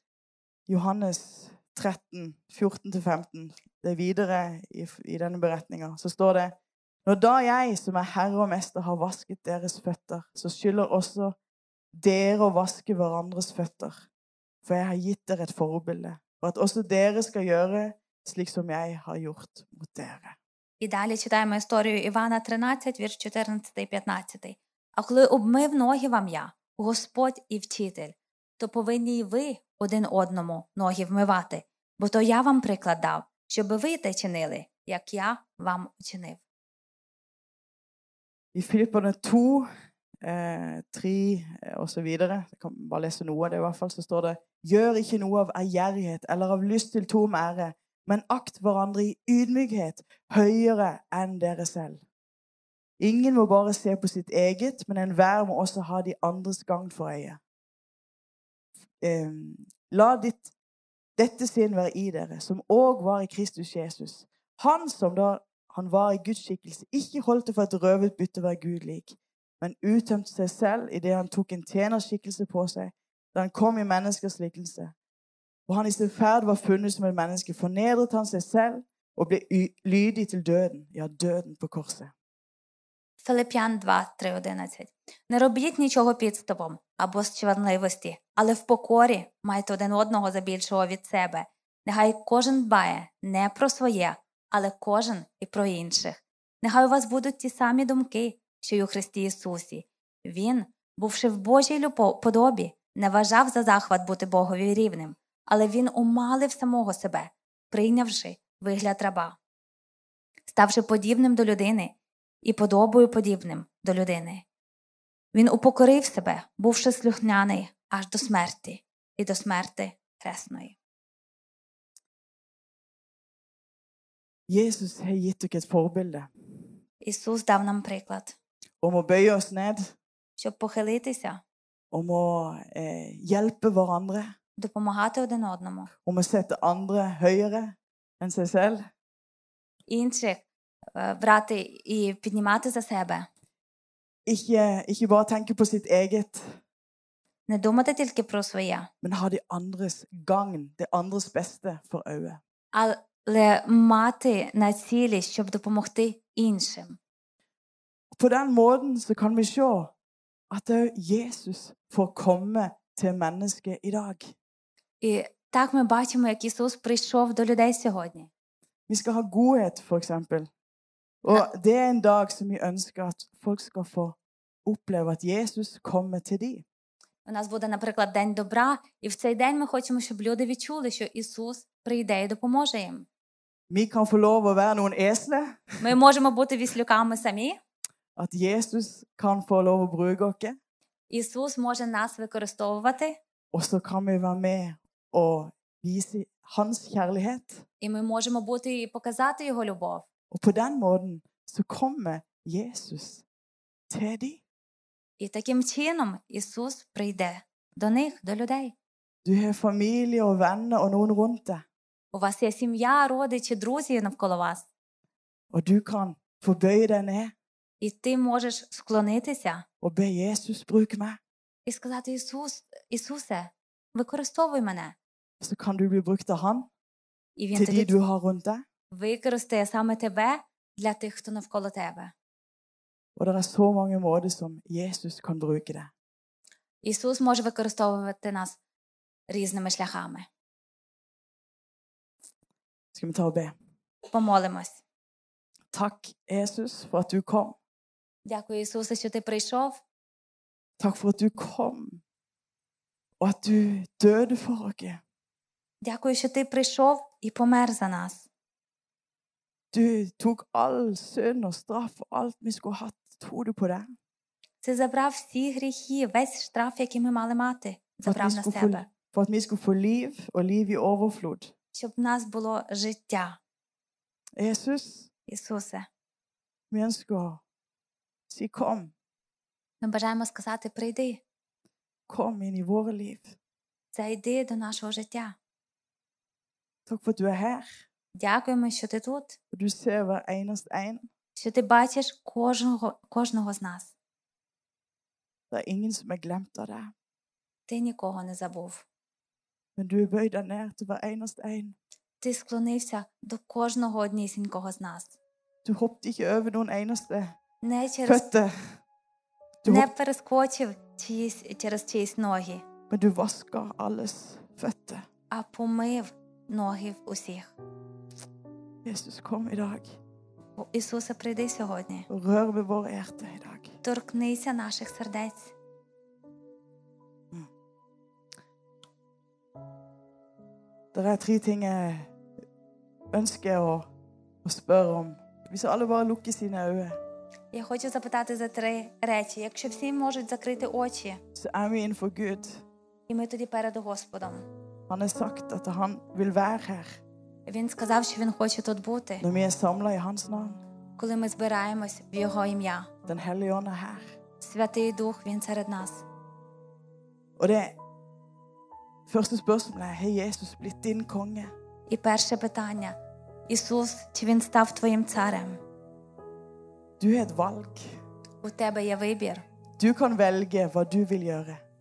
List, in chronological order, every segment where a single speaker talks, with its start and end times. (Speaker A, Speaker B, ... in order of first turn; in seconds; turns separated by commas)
Speaker A: 0.7-11.3, Speaker A: 11.9-14.0, Speaker A: 14.6-20.4, Speaker B: 20.8-36.4, Speaker A: 38.5-39.7, Speaker A: 40.2-52.0, Speaker A: 53.0-57.4, Speaker A: 59.0-60.5, Speaker A: 61.2-74.9, Speaker A: 75.7-82.1, Speaker B: 83.2-109.4, Speaker B: 110.5-114.5, Speaker B: 115.3-120.8, Speaker A: 124.5-126.3, Speaker B: 127.0-128.3, Speaker A: 128.8-129.9, Speaker B: 130.4-131.4, Speaker A: 131.9-134.3, Speaker B: 134.6-135.9, Speaker A: 136.0-138.9, Speaker B: 139.9-143.3, Speaker A: 144.2-146.6, Speaker B: 147.5-148.9, Speaker A: 149.0-152.4, Speaker B: 152.7-157.0, Speaker A: 158.1-159.9, Speaker A: 160.5-164.3, Speaker B: 165.0-168.3, Speaker A: 168.9-170.5, Speaker A: 171.2-176.6, Speaker B: 177.2-183.1, Speaker A: 183.7-185.9, Speaker B: 185.8-187.6, Speaker A: 188.2-190.6, Speaker B: 191.1-193.2, Speaker A: 193.5-197.6, Speaker B: 197.8-200.1, Speaker A: 200.3-203.2, Speaker A: 203.9-204.4, Speaker B: 205.2-208.7, Speaker A: 209.2-211.6, Speaker B: 212.1-214.7, Speaker A: 215.5-217.3, Speaker B: 217.8-219.6, Speaker A: 219.8-221.2, Speaker B: 221.7-224.9, Speaker A: 225.4-226.7, Speaker B: 227.4-227.9, Speaker A: 227.5-228.6, Speaker B: 228.9-232.1, Speaker A: 233.2-235.9, Speaker B: 236.8-238.6, Speaker B: 239.3-240.3, Speaker A: 242.9-243.5, Speaker B: 244.1-244.8, Speaker A: 245.7-247.6, Speaker B: 248.2-249.8, Speaker A: 250.8-252.0, Speaker A: 253.2-255.0, Speaker B: 255.8-258.3, Speaker A: 259.7-263.9, Speaker B: 264.6-268.8, Speaker A: 268.0-271.5, Speaker B: 271.7-273.4, Speaker A: 274.4-275.1, Speaker B: 275.3-275.9, Speaker A: 276.7-277.4, Speaker A: 278.3-278.9, Speaker B: 279.8-281.2, Speaker A: 282.1-283.4, Speaker B: 283.9-285.4, Speaker A: 286.9-287.8, Speaker B: 288.1-289.4, Speaker A: 289.5-291.1, Speaker B: 291.4-293.9, Speaker A: 295.5-296.9, Speaker B: 297.7-298.8, Speaker A: 299.8-301.8, Speaker B: 302.2-305.1, Speaker A: 305.6-307.3, Speaker B: 307.6-308.2, Speaker A: 308.1-308.7, Speaker A: 309.6-309.9, Speaker B: 309.6-312.6, Speaker A: 312.9-315.1, Speaker B: 315.3-317.5, Speaker A: 318.8-320.0, Speaker B: 320.6-322.1, Speaker A: 322.1-323.8, Speaker B: 323.8-325.5, Speaker A: 330.9-332.1, Speaker A: 333.1-333.9, Speaker A: 334.4-337.0, Speaker B: 337.5-341.2, Speaker A: 341.3-342.6, Speaker B: 343.1-344.4, Speaker A: 344.9-347.0, Speaker B: 347.5-349.2, Speaker A: 349.2-350.6, Speaker B: 351.0-352.9, Speaker A: 353.1-354.1, Speaker B: 354.4-356.1, Speaker A: 357.4-357.8, Speaker A: 359.1-361.5, Speaker B: 361.9-362.9, Speaker B: 363.5-365.6, Speaker A: 367.0-368.0, Speaker B: 368.4-369.4, Speaker A: 369.8-371.6